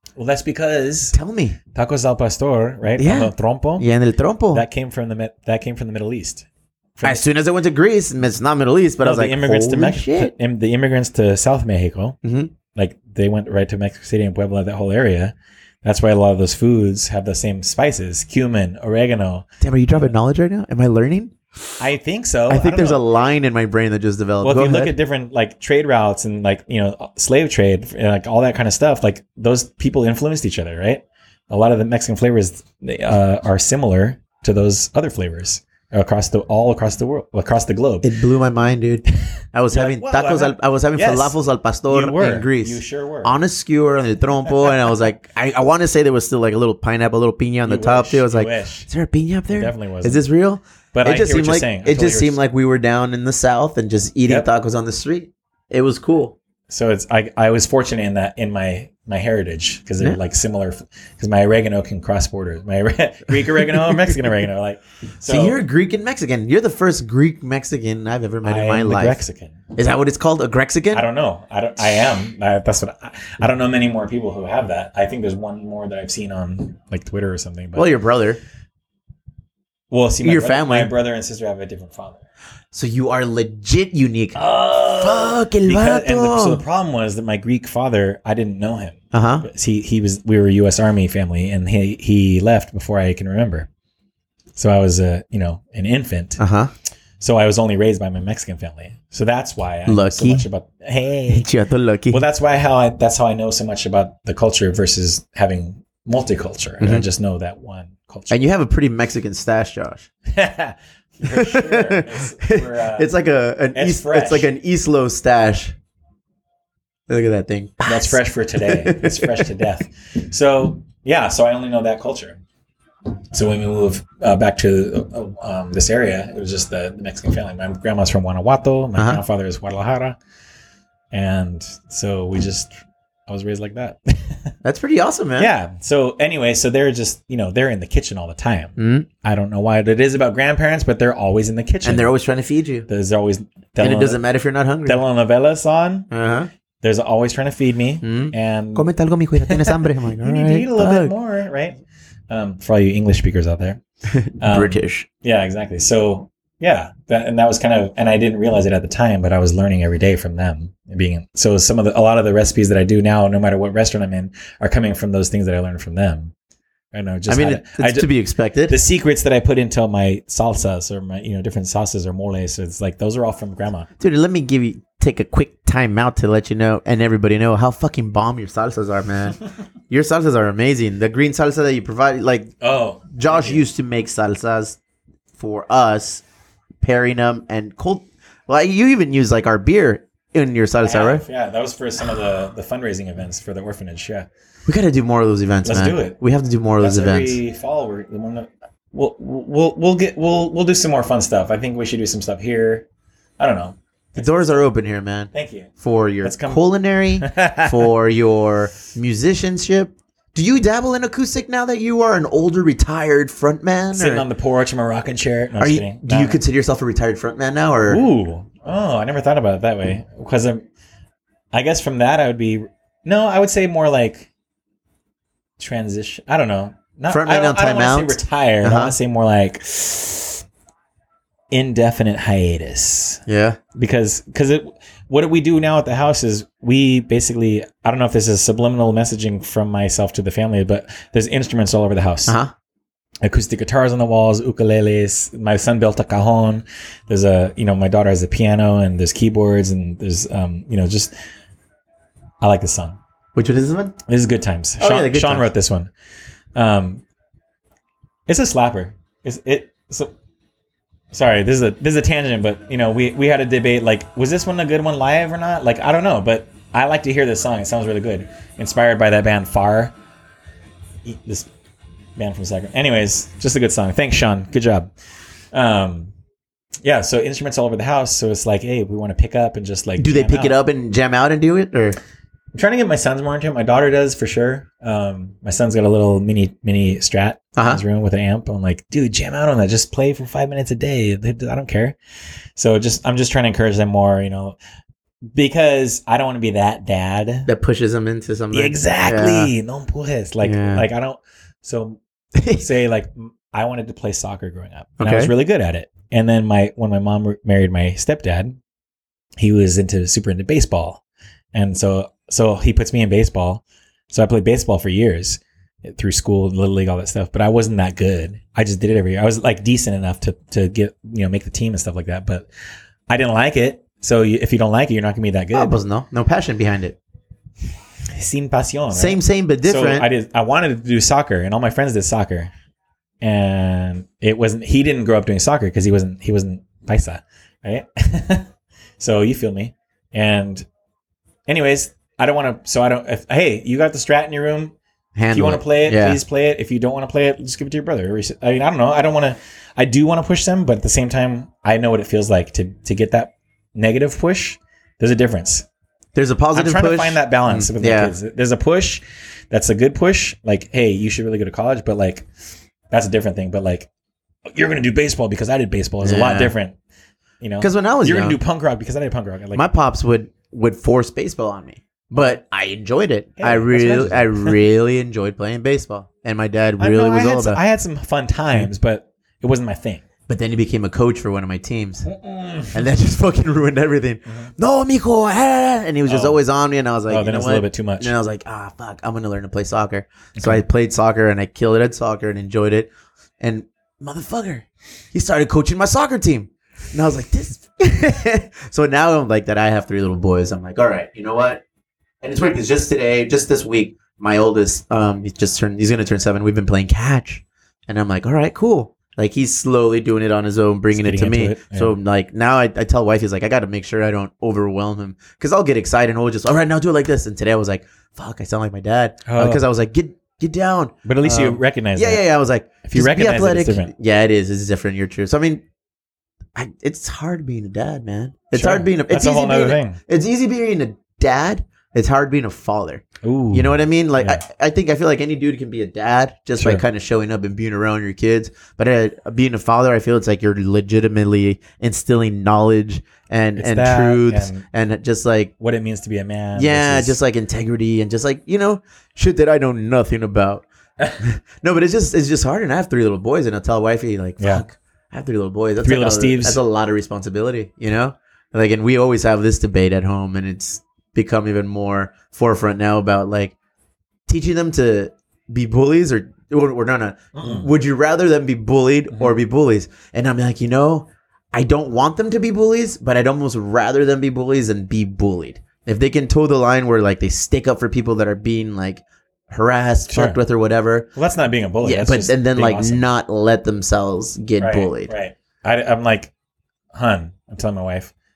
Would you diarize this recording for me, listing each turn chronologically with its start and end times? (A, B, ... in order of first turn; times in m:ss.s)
0:00.2-0:01.2 A
0:01.1-0:01.6 B
0:01.7-0:03.9 A
0:03.0-0:04.6 B
0:04.5-0:07.2 A
0:07.0-0:10.3 B
0:09.0-0:12.2 A
0:12.2-0:12.5 B
0:12.7-0:19.5 A
0:19.6-0:21.4 B
0:21.8-0:23.0 A
0:22.5-0:24.9 B
0:24.4-0:38.1 A
0:38.0-0:56.4 B
0:39.7-0:41.4 A
0:41.9-0:43.3 A
0:47.7-0:48.9 A
0:49.5-0:50.2 A
0:50.9-0:52.4 A
0:56.7-1:05.6 A
1:05.3-1:09.2 B
1:08.4-1:09.6 A
1:09.8-1:11.1 B
1:10.9-1:17.9 A
1:17.8-1:18.4 B
1:19.9-1:22.2 A
1:20.2-1:20.9 B
1:22.7-1:26.6 B
1:24.4-1:33.7 A
1:29.1-1:29.5 B
1:34.6-1:36.4 A
1:36.4-1:36.7 B
1:37.2-1:41.5 A
1:39.9-1:40.5 B
1:41.3-1:42.2 B
1:42.1-1:48.4 A
1:46.8-1:47.1 B
1:48.3-1:50.1 B
1:50.3-1:53.1 A
1:51.3-1:55.8 B
1:53.7-1:54.5 A
1:57.1-1:59.5 B
1:57.8-2:02.4 A
2:03.3-2:10.2 A
2:09.0-2:09.2 B
2:11.1-2:12.7 A
2:13.3-2:14.4 A
2:14.6-2:15.5 B
2:15.4-2:22.1 A
2:18.8-2:19.1 B
2:21.8-2:22.9 B
2:22.9-2:24.2 A
2:23.8-2:25.0 B
2:24.9-2:26.1 A
2:26.1-2:26.5 B
2:26.8-2:28.9 A
2:28.0-2:31.1 B
2:29.4-2:31.8 A
2:32.3-2:33.8 A
2:34.1-2:35.1 B
2:34.4-2:46.3 A
2:46.9-2:48.1 A
2:47.3-2:48.8 B
2:48.7-2:53.9 A
2:54.0-3:02.5 B
3:02.6-3:03.6 A
3:03.1-3:04.8 B
3:05.4-3:06.2 B
3:06.8-3:11.2 B
3:10.8-3:14.3 A
3:14.7-3:17.4 B
3:15.6-3:16.2 A
3:16.8-3:22.9 A
3:23.4-3:24.6 A
3:24.2-3:34.3 B
3:25.3-3:25.7 A
3:26.2-3:26.6 A
3:27.2-3:27.9 A
3:33.9-3:36.4 A
3:35.6-3:38.0 B
3:37.9-3:40.6 A
3:41.5-3:44.3 A
3:45.6-3:50.4 A
3:47.1-3:49.0 B
3:51.5-3:53.2 A
3:53.3-3:53.6 B
3:53.8-4:02.4 A
4:02.3-4:02.5 B
4:03.2-4:11.1 A
4:12.4-4:13.0 A
4:13.4-4:14.0 B
4:14.1-4:15.9 A
4:14.8-4:15.5 B
4:16.6-4:17.0 A
4:18.3-4:20.1 A
4:21.1-4:30.0 A
4:31.0-4:31.5 A
4:32.2-4:34.9 A
4:35.5-4:36.1 A
4:36.8-4:40.6 A
4:40.0-4:42.0 B
4:42.5-4:52.0 A
4:47.6-4:47.8 B
4:52.6-4:54.6 A
4:55.3-4:57.5 A
4:57.5-4:59.5 B
4:58.5-5:02.0 A
5:00.4-5:00.8 B
5:02.4-5:02.7 B
5:02.6-5:08.6 A
5:05.0-5:05.3 B
5:09.4-5:11.0 A
5:11.5-5:22.5 A
5:23.1-5:25.8 A
5:25.5-5:27.0 B
5:28.1-5:32.5 A
5:28.9-5:30.1 B
5:33.2-5:40.7 A
5:41.5-5:44.8 A
5:45.2-5:46.2 B
5:45.3-5:55.7 A
5:56.2-5:58.2 B
5:56.5-6:02.3 A
6:02.9-6:03.9 A
6:04.5-6:06.8 A
6:06.0-6:06.5 B
6:07.4-6:09.6 A
6:07.6-6:08.4 B
6:09.6-6:17.6 B
6:13.4-6:14.6 A
6:16.8-6:20.0 A
6:20.3-6:22.1 B
6:22.0-6:22.8 A
6:22.7-6:41.6 B
6:26.1-6:26.4 A
6:27.1-6:28.2 A
6:30.4-6:30.6 A
6:42.2-7:05.6 B
6:50.9-6:52.0 A
6:59.3-6:59.6 A
7:01.0-7:02.2 A
7:02.8-7:03.9 A
7:06.6-7:25.5 B
7:08.5-7:10.0 A
7:13.2-7:14.4 A
7:23.6-7:24.6 A
7:25.6-7:27.2 A
7:26.6-7:43.6 B
7:34.4-7:34.6 A
7:35.8-7:36.6 A
7:44.3-8:01.1 B
7:47.4-7:47.7 A
8:00.1-8:00.4 A
8:01.2-8:03.0 A
8:01.8-8:05.1 B
8:04.6-8:06.3 A
8:06.9-8:08.1 A